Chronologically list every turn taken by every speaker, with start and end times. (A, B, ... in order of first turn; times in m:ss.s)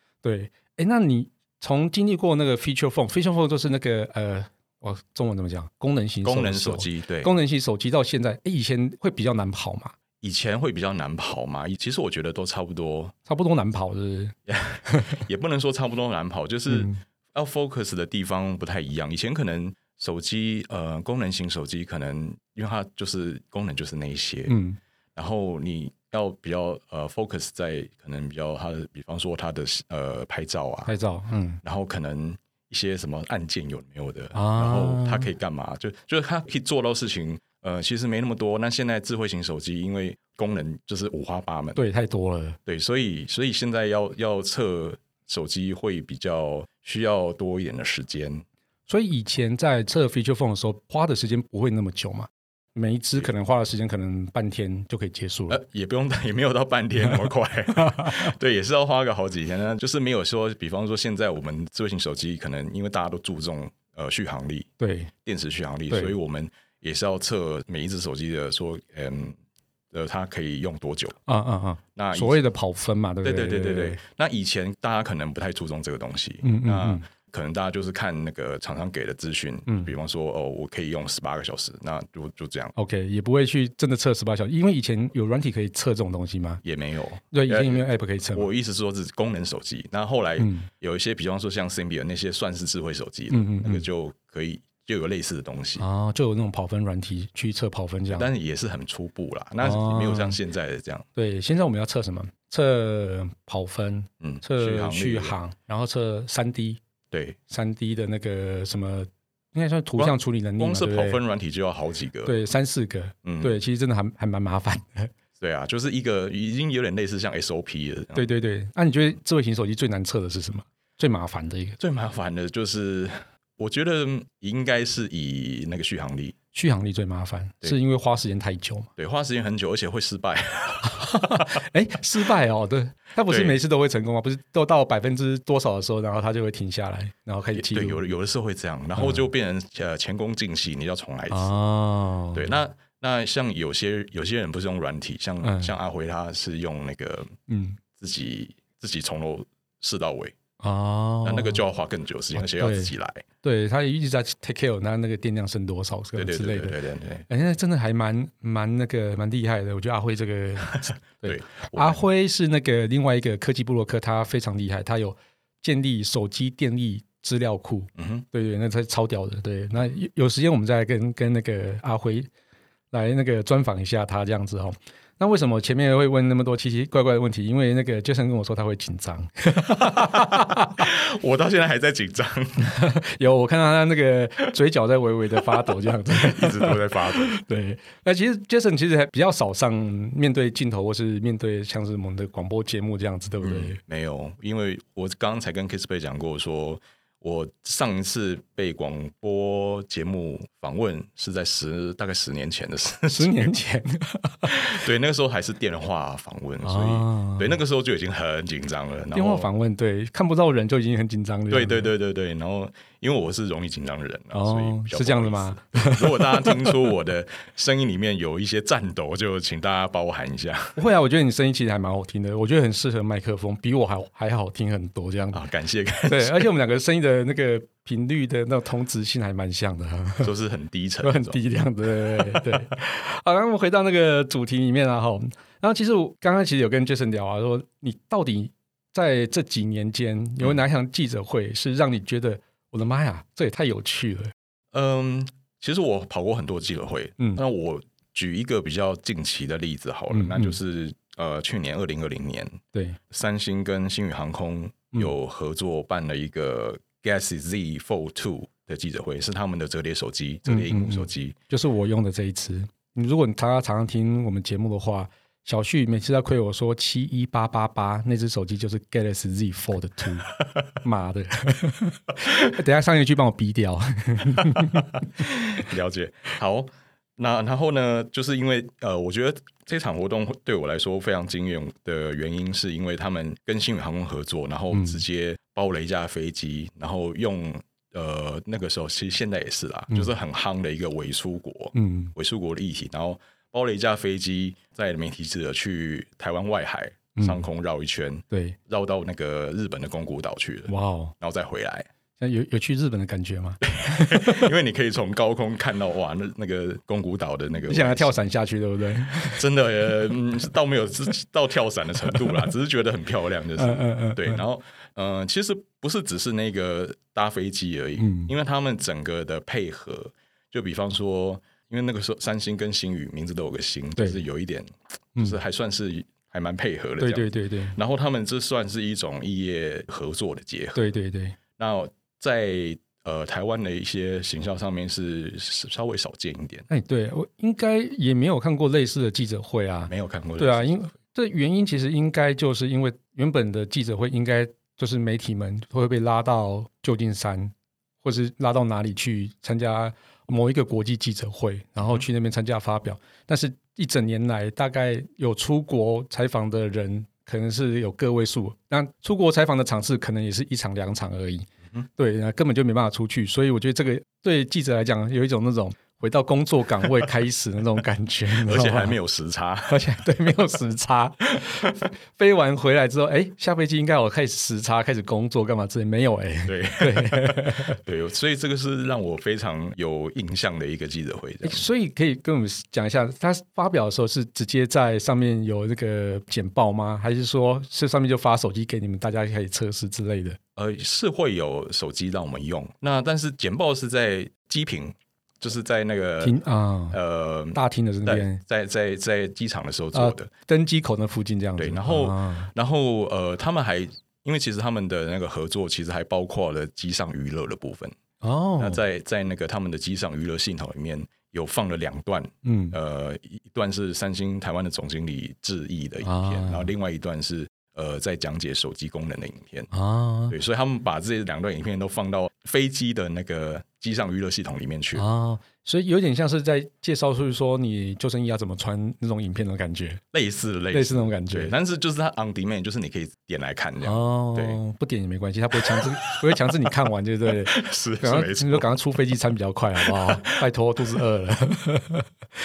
0:00.2-0:10.0 A
0:06.2-0:07.3 B
0:10.2-0:13.1 B
0:13.3-0:14.4 A
0:14.5-0:24.6 B
0:14.9-0:15.2 A
0:16.7-0:17.0 A
0:24.5-0:24.8 A
0:25.2-0:30.9 B
0:30.9-0:31.6 A
0:31.6-0:41.8 B
0:34.3-0:35.3 A
0:41.8-0:42.6 A
0:42.7-0:48.4 B
0:48.9-0:55.6 A
0:55.5-1:09.4 B
0:57.8-0:58.1 A
1:04.8-1:05.1 A
1:09.9-1:11.2 B
1:11.3-1:14.0 A
1:12.0-1:12.4 B
1:13.2-1:22.8 B
1:16.4-1:17.0 A
1:22.8-1:26.6 A
1:26.6-1:35.8 B
1:27.3-1:28.5 A
1:30.4-1:30.7 A
1:33.3-1:33.8 A
1:35.8-1:38.3 A
1:38.1-1:41.1 B
1:39.6-1:40.4 A
1:41.2-1:46.8 A
1:44.2-1:45.4 B
1:47.1-1:47.4 B
1:47.5-1:51.2 A
1:50.0-1:52.4 B
1:52.2-1:55.1 A
1:53.2-1:53.5 B
1:55.4-1:58.3 B
1:58.2-2:01.8 A
2:01.8-2:06.4 B
2:06.5-2:08.9 A
2:09.0-2:11.6 B
2:10.9-2:18.0 A
2:13.3-2:13.6 B
2:17.5-2:21.6 B
2:19.0-2:19.2 A
2:21.3-2:22.5 A
2:22.3-2:27.4 B
2:25.4-2:25.7 A
2:27.5-2:27.8 A
2:28.0-2:30.4 B
2:30.6-2:31.6 A
2:31.2-2:33.2 B
2:32.4-2:32.9 A
2:33.4-2:36.8 A
2:36.2-2:37.2 B
2:37.3-2:52.3 A
2:41.2-2:42.0 B
2:48.0-2:48.2 B
2:52.9-3:00.8 A
2:59.7-3:02.7 B
3:02.6-3:13.8 A
3:05.4-3:07.4 B
3:13.4-3:23.5 B
3:23.1-3:24.6 A
3:24.4-3:29.5 B
3:26.6-3:27.6 A
3:29.1-3:31.9 A
3:31.5-3:40.8 B
3:34.3-3:36.8 A
3:40.8-3:45.4 A
3:45.3-3:46.5 B
3:46.0-3:50.3 A
3:50.2-3:51.4 B
3:51.0-4:04.3 A
3:52.0-3:52.7 B
4:04.7-4:21.4 B
4:10.1-4:10.6 A
4:12.7-4:13.0 A
4:20.5-4:35.0 A
4:34.4-5:01.9 B
4:44.7-4:45.0 A
4:51.7-4:52.1 A
4:57.2-4:57.4 A
4:58.3-4:58.6 A
5:00.7-5:01.1 A
5:02.2-5:04.5 A
5:03.6-5:08.2 B
5:07.7-5:09.4 A
5:09.2-5:30.8 B
5:13.6-5:14.4 A
5:18.0-5:18.3 A
5:27.0-5:27.8 A
5:30.8-5:31.4 A
5:31.6-5:36.7 B
5:36.7-6:09.0 A
5:39.9-5:40.8 B
6:08.4-6:09.8 B
6:09.7-6:17.8 A
6:16.5-6:21.6 B
6:21.4-6:30.4 A
6:30.6-6:36.4 B
6:36.2-6:37.0 A
6:36.9-6:40.3 B
6:37.5-6:38.4 A
6:39.9-6:42.5 A
6:41.6-6:48.0 B
6:48.2-6:48.8 A
6:48.6-6:59.7 B
6:52.4-6:52.8 A
6:56.0-6:56.7 A
6:59.7-7:00.4 A
7:00.3-7:05.0 B
7:05.0-7:10.0 A
7:10.1-7:14.6 B
7:10.7-7:11.5 A
7:13.8-7:22.1 A
7:15.6-7:16.7 B
7:17.3-7:18.8 B
7:19.8-7:20.5 B